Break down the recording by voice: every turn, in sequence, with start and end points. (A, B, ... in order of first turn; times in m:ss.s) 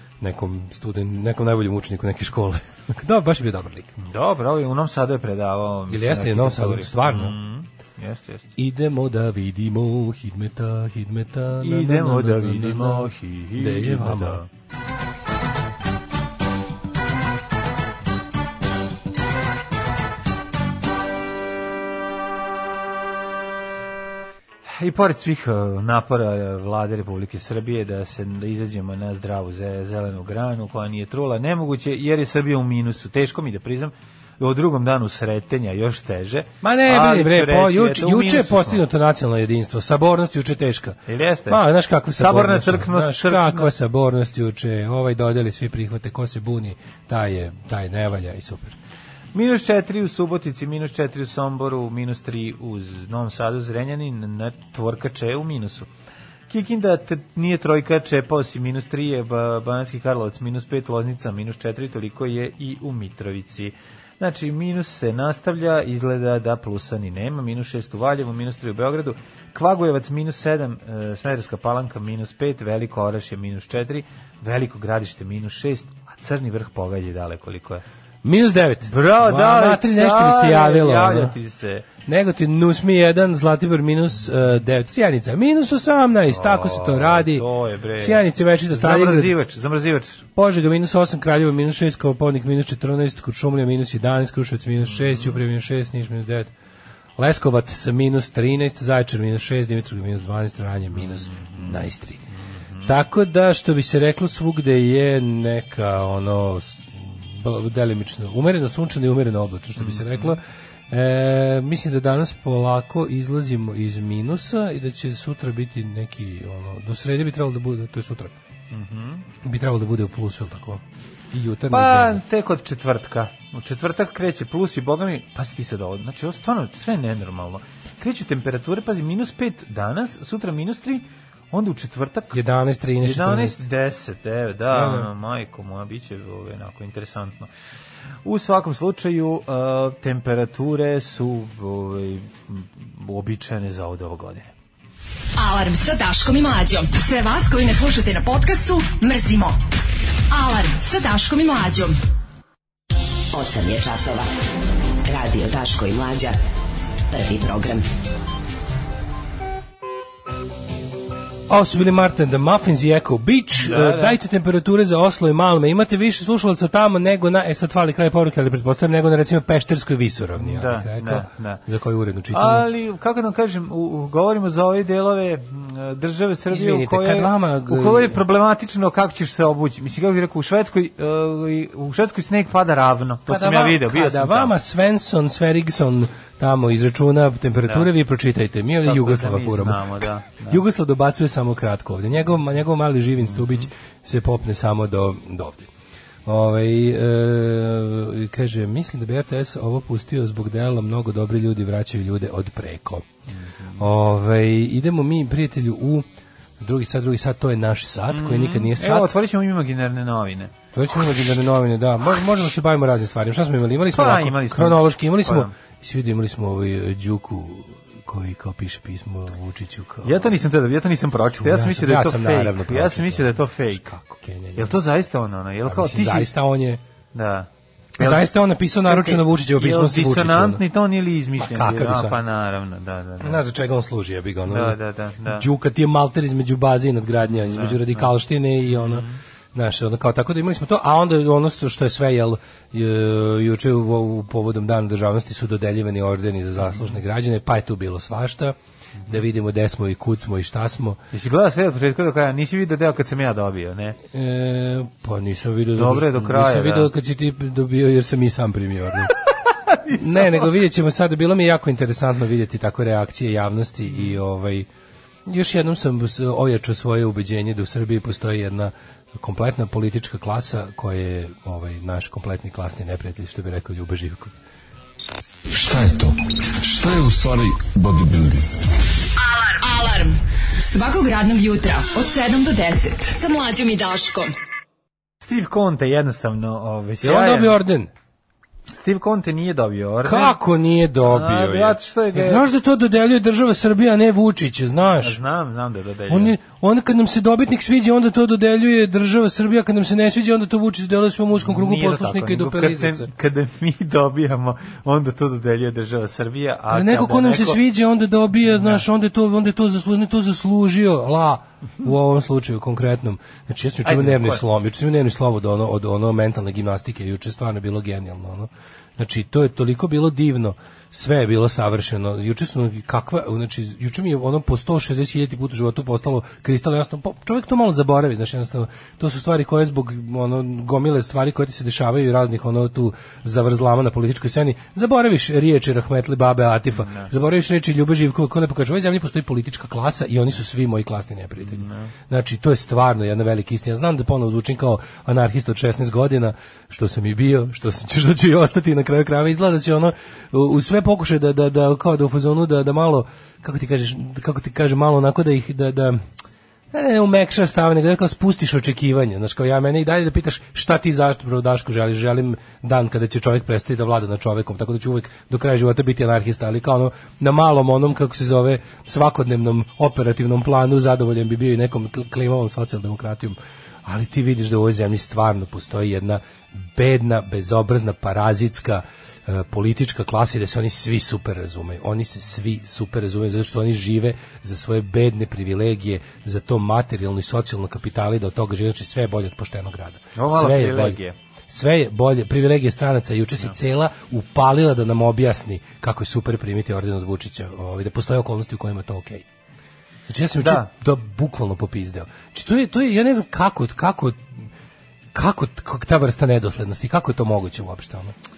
0:00.2-0:04.0 A
0:04.0-0:08.5 B
0:05.9-0:07.4 A
0:08.6-0:14.4 A
0:11.6-0:14.5 B
0:24.8-0:38.8 B
0:36.6-0:48.8 A
0:41.1-0:41.6 B
0:42.2-0:43.7 B
0:49.3-0:55.9 B
0:56.5-1:17.8 B
1:18.2-1:21.4 A
1:18.9-1:21.9 B
1:22.1-1:27.4 A
1:26.3-1:30.3 B
1:28.0-1:29.3 A
1:30.4-1:36.5 A
1:34.8-1:35.4 B
1:37.2-1:42.2 A
1:41.0-1:41.9 B
1:42.8-1:58.3 A
1:49.8-1:50.4 B
1:58.7-1:59.3 B
1:59.4-2:02.2 A
2:01.7-2:12.4 B
2:12.3-2:13.6 A
2:13.0-2:17.5 B
2:14.7-2:15.1 A
2:18.2-2:24.5 B
2:25.4-2:29.6 C
2:30.3-2:32.0 C
2:33.3-2:34.3 D
2:35.1-2:36.4 D
2:37.1-2:37.9 D
2:41.5-2:52.7 A
2:43.6-2:44.2 B
2:50.4-2:51.6 B
2:52.3-3:04.5 B
2:56.5-2:58.2 A
3:03.3-3:15.7 A
3:08.9-3:10.6 B
3:13.4-3:13.7 B
3:16.3-3:23.0 A
3:23.8-3:26.0 A
3:26.6-3:29.1 A
3:28.1-3:30.5 B
3:30.7-3:40.3 A
3:33.9-3:35.5 B
3:40.0-3:43.9 B
3:41.4-3:44.8 A
3:44.6-3:46.3 B
3:45.6-3:46.8 A
3:47.1-3:48.3 B
3:48.0-3:50.6 A
3:48.8-3:53.4 B
3:51.4-3:52.2 A
3:53.2-4:08.6 A
3:54.5-3:55.5 B
3:57.4-3:58.1 B
3:58.7-3:59.2 B
4:09.1-4:11.0 A
4:11.1-4:14.0 B
4:14.1-4:19.2 A
4:15.8-4:16.9 B
4:19.5-4:20.5 B
4:19.9-4:24.7 A
4:25.3-4:34.3 A
4:35.5-4:38.5 E
4:39.2-4:44.3 C
4:45.2-4:47.6 B
4:47.0-4:47.9 A
4:48.7-4:50.4 B
4:50.0-4:55.2 A
4:51.0-4:52.4 B
4:55.0-4:56.4 B
4:56.1-5:03.1 A
5:01.4-5:07.6 B
5:06.7-5:56.0 A
5:08.5-5:08.8 B
5:13.8-5:14.4 B
5:36.8-5:37.1 B
5:41.5-5:41.9 B
5:56.7-6:31.0 A
6:30.2-6:31.1 B
6:31.5-6:39.3 A
6:40.1-6:44.2 A
6:40.4-6:40.7 B
6:45.1-6:48.1 A